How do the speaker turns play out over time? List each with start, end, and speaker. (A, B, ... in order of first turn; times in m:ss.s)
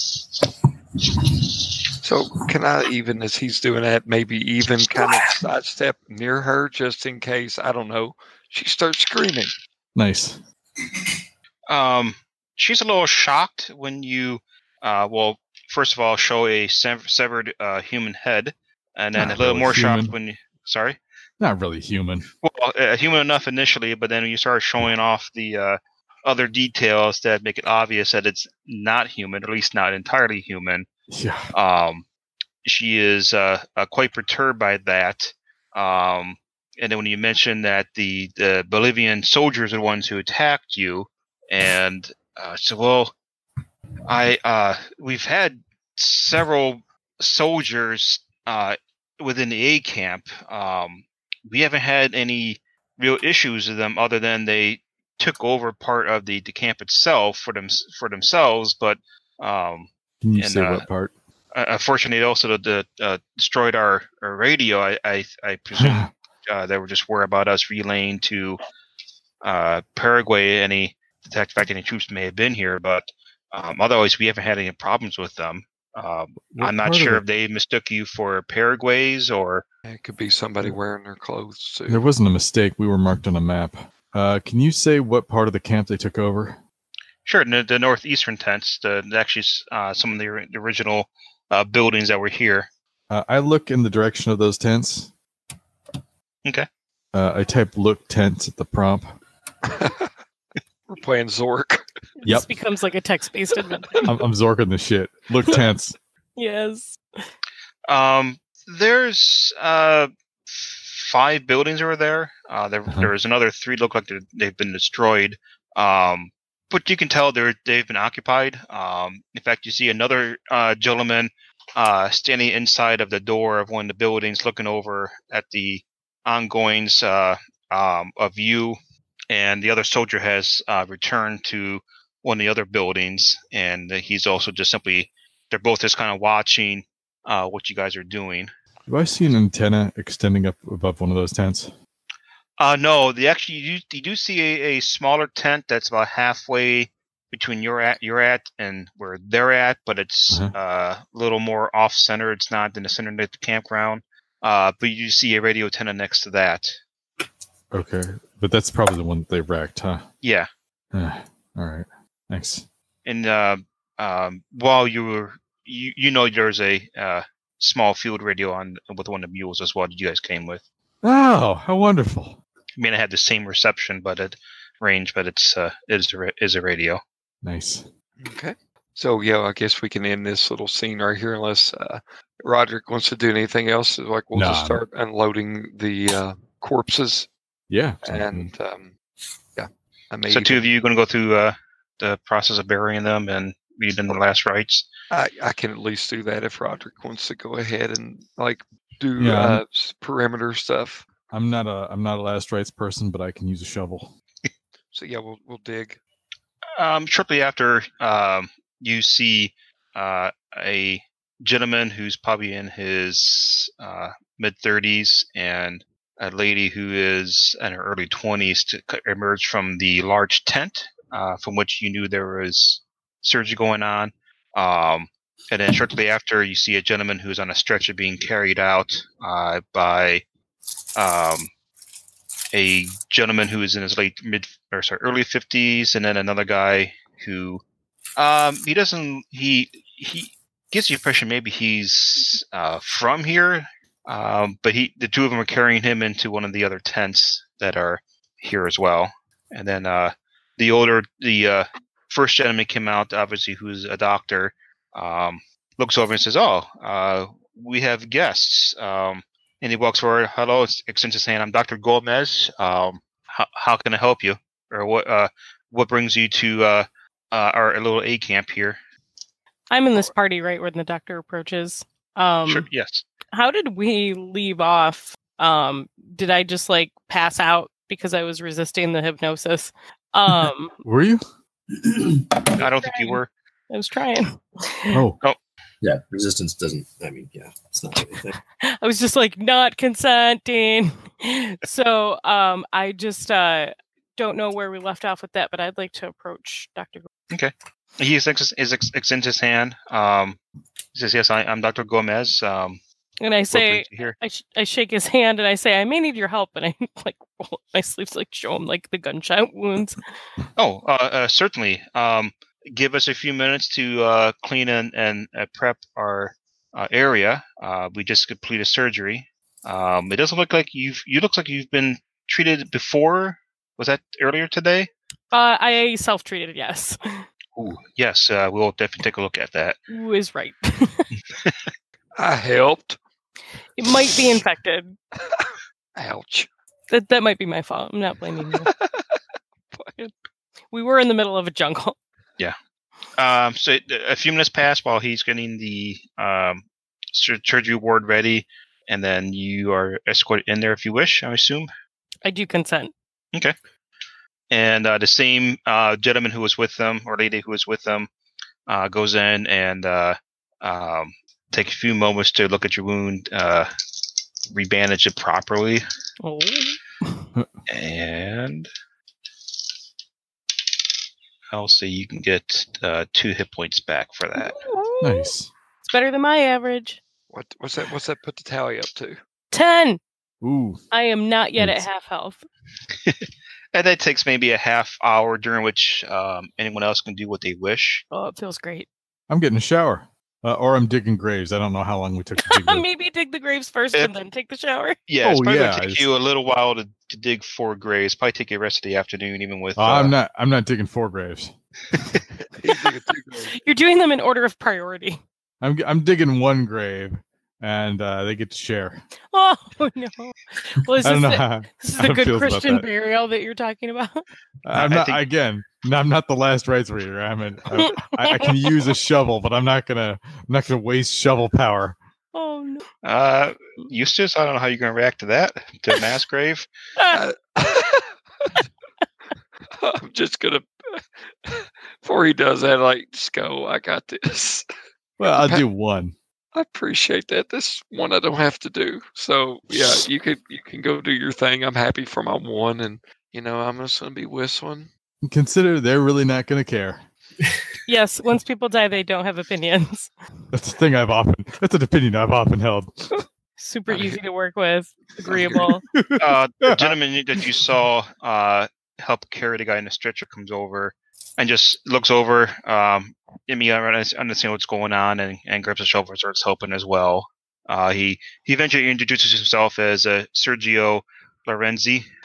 0:02.0-0:09.5 A
0:09.9-0:10.4 B
0:11.7-0:21.0 C
0:19.1-0:20.1 B
0:21.4-0:22.3 B
0:22.4-0:30.9 C
0:31.1-0:31.5 B
0:31.5-0:32.0 C
0:32.6-0:43.1 C
0:44.0-1:00.8 C
1:00.2-1:01.1 B
1:01.5-1:08.6 C
1:05.8-1:06.1 B
1:09.4-1:19.6 C
1:16.5-1:17.2 B
1:19.9-1:22.0 A
1:21.9-1:26.6 B
1:27.2-1:32.7 C
1:33.1-1:35.1 B
1:37.1-1:39.2 B
1:39.6-1:40.1 A
1:40.9-1:41.9 A
1:42.2-1:44.1 D
1:44.0-1:46.0 B
1:46.4-1:47.0 D
1:47.9-2:08.8 C
2:09.3-2:18.5 C
2:18.9-2:21.7 B
2:22.6-2:36.8 C
2:37.7-2:40.0 B
2:40.2-2:40.5 C
2:40.9-2:42.6 B
2:43.0-2:50.6 C
2:51.0-2:52.4 B
2:52.8-2:57.0 C
2:57.4-2:57.9 B
2:58.2-3:07.3 A
3:04.3-3:04.8 B
3:07.7-3:08.5 B
3:08.0-3:09.0 A
3:09.6-3:10.7 A
3:10.3-3:14.8 C
3:15.1-3:21.1 A
3:19.2-3:19.6 B
3:21.3-3:24.1 B
3:24.9-3:26.0 A
3:26.8-3:50.2 C
3:51.0-3:51.5 C
3:52.5-3:57.6 C
3:58.2-4:28.8 C
4:29.7-4:32.6 D
4:32.4-4:33.0 C
4:33.3-4:40.8 D
4:40.3-4:41.2 B
4:41.7-4:42.5 E
4:42.6-4:43.3 C
4:42.6-4:43.2 D
4:43.7-4:45.0 D
4:44.9-4:45.2 B
4:45.8-4:48.4 E
4:48.6-4:57.1 D
4:57.3-5:00.4 C
5:00.9-5:02.8 C
5:03.2-5:10.0 D
5:03.5-5:04.1 C
5:10.6-5:24.9 C
5:25.3-5:27.2 D
5:27.6-5:29.8 C
5:29.9-5:31.1 D
5:32.2-5:33.0 A
5:33.8-5:35.0 D
5:35.2-5:36.5 A
5:36.9-5:38.7 D
5:38.5-5:39.2 A
5:40.7-5:42.0 D
5:43.2-5:51.7 C
5:52.2-5:52.9 D
5:54.5-5:58.1 C
5:58.7-6:03.7 C
6:04.5-6:05.8 C
6:06.2-6:07.2 D
6:07.7-6:08.7 C
6:11.5-6:14.6 C
6:14.4-6:15.3 D
6:15.0-6:15.5 B
6:15.8-6:17.0 D
6:17.3-6:19.2 A
6:19.5-6:20.0 D
6:20.4-6:20.8 B
6:20.9-6:22.4 D
6:23.0-6:28.0 C
6:28.1-6:28.9 D
6:29.3-6:32.8 B
6:32.4-6:35.0 D
6:35.1-6:40.1 C
6:35.2-6:36.1 B
6:39.8-6:41.5 B
6:42.5-6:43.5 A
6:43.5-6:45.2 D
6:45.6-6:49.0 B
6:49.3-6:54.2 D
6:51.0-6:52.8 B
6:54.6-7:02.0 B
6:54.7-6:55.2 C
6:57.8-6:58.7 D
7:02.3-7:02.8 D
7:03.0-7:06.7 C
7:07.1-7:08.6 A
7:09.7-7:14.6 A
7:15.2-7:16.1 B
7:15.2-7:15.6 A
7:16.5-7:24.9 A
7:25.2-7:27.0 B
7:27.8-7:30.1 D
7:30.5-7:33.1 B
7:33.6-7:35.8 D
7:35.3-7:35.7 A
7:35.9-7:36.9 B
7:36.2-7:52.0 C